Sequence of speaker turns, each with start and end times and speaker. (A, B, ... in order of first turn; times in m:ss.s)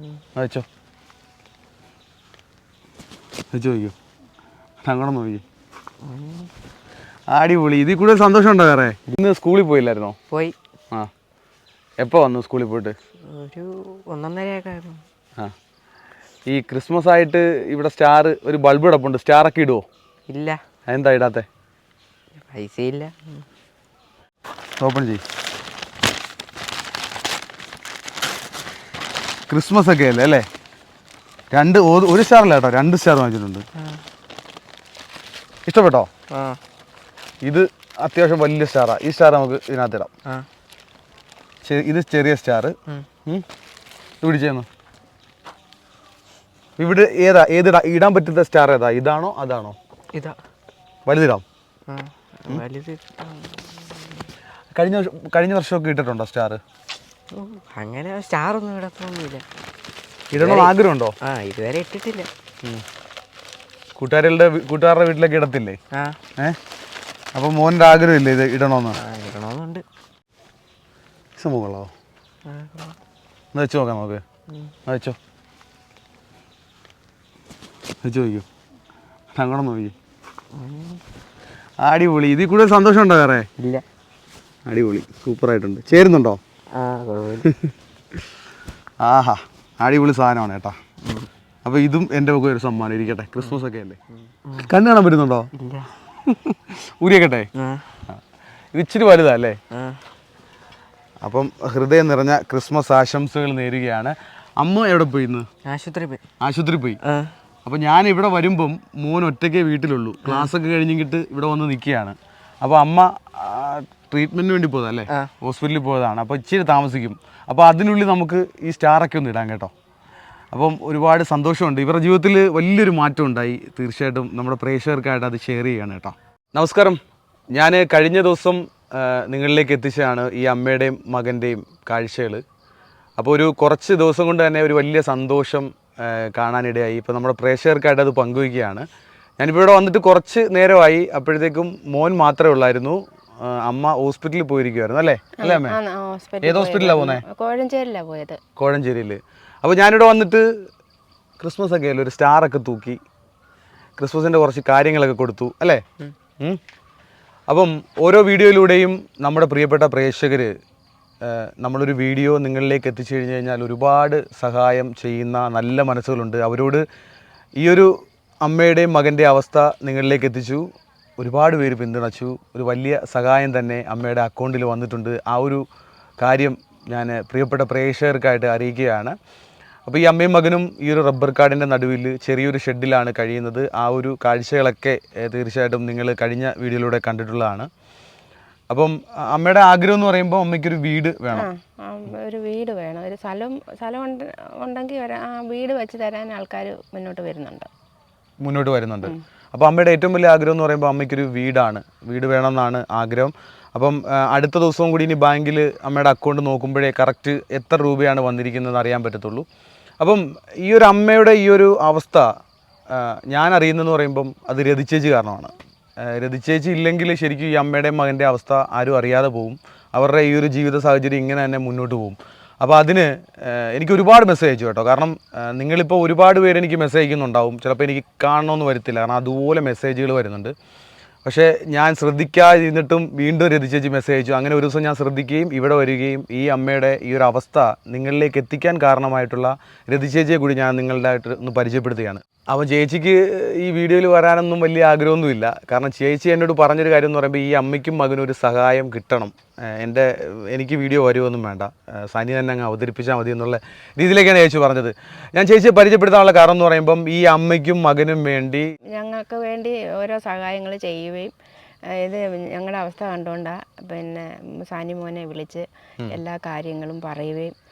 0:00.3-0:00.6 A
0:03.5-0:03.9 A
0:04.8-0:05.4 A
0:06.0-0:06.5 B
0:07.3-0:10.2 A
0:10.3-0:10.6 B
0:12.0-0:12.9 A
0:13.3-0:15.0 B
0:16.5-0:19.8 A
0:20.3-0:20.6 B
0:20.9-0:21.4 A
0:22.4-0:23.4 B
0:24.8-0:25.2 A
0:29.5-0:30.4 A
0:31.5-0:33.6 A
0:35.6-0:36.1 A
0:36.3-0:36.6 B
0:37.4-0:40.1 A
0:41.6-0:42.7 A
0:44.2-0:44.7 A
0:46.8-0:49.8 A
0:51.0-0:51.4 A
0:51.9-0:54.3 B
0:54.7-0:56.6 A
0:57.3-0:59.4 B
1:00.3-1:01.1 A
1:00.3-1:00.7 B
1:01.2-1:02.3 B
1:04.0-1:05.8 A
1:05.9-1:06.2 B
1:07.3-1:09.0 A
1:09.0-1:09.8 B
1:11.4-1:11.9 A
1:12.4-1:13.0 B
1:13.5-1:14.2 A
1:14.8-1:15.2 A
1:18.0-1:18.4 A
1:19.4-1:19.9 A
1:20.5-1:21.0 B
1:21.8-1:23.5 A
1:23.6-1:23.8 B
1:24.7-1:26.4 A
1:26.7-1:27.5 B
1:27.4-1:27.7 A
1:29.0-1:30.8 A
1:31.0-1:31.3 B
1:31.6-1:34.0 A
1:34.6-1:35.5 A
1:35.6-1:35.9 B
1:36.2-1:37.5 A
1:37.6-1:37.8 B
1:38.7-1:39.6 A
1:39.7-1:40.0 B
1:41.2-1:45.5 A
1:45.6-1:46.2 B
1:46.4-1:47.0 A
1:47.0-1:47.3 B
1:47.6-1:59.7 A
2:00.5-2:07.0 A
2:07.5-2:12.4 A
2:13.2-2:18.8 A
2:19.4-2:25.8 A
2:25.4-2:28.4 C
2:26.4-2:27.2 A
2:28.6-2:30.7 A
2:31.4-2:33.0 A
2:34.0-2:35.8 A
2:37.5-2:40.5 A
2:41.2-2:46.8 A
2:47.6-2:47.9 A
2:48.4-2:50.6 A
2:51.2-2:55.6 A
2:56.2-2:59.2 A
2:59.8-3:07.7 A
3:08.7-3:11.5 A
3:11.3-3:17.7 C
3:18.4-3:29.4 A
3:30.0-3:32.3 A
3:32.9-3:50.5 A
3:51.2-4:18.7 A
4:18.9-4:21.3 C
4:21.9-4:27.5 C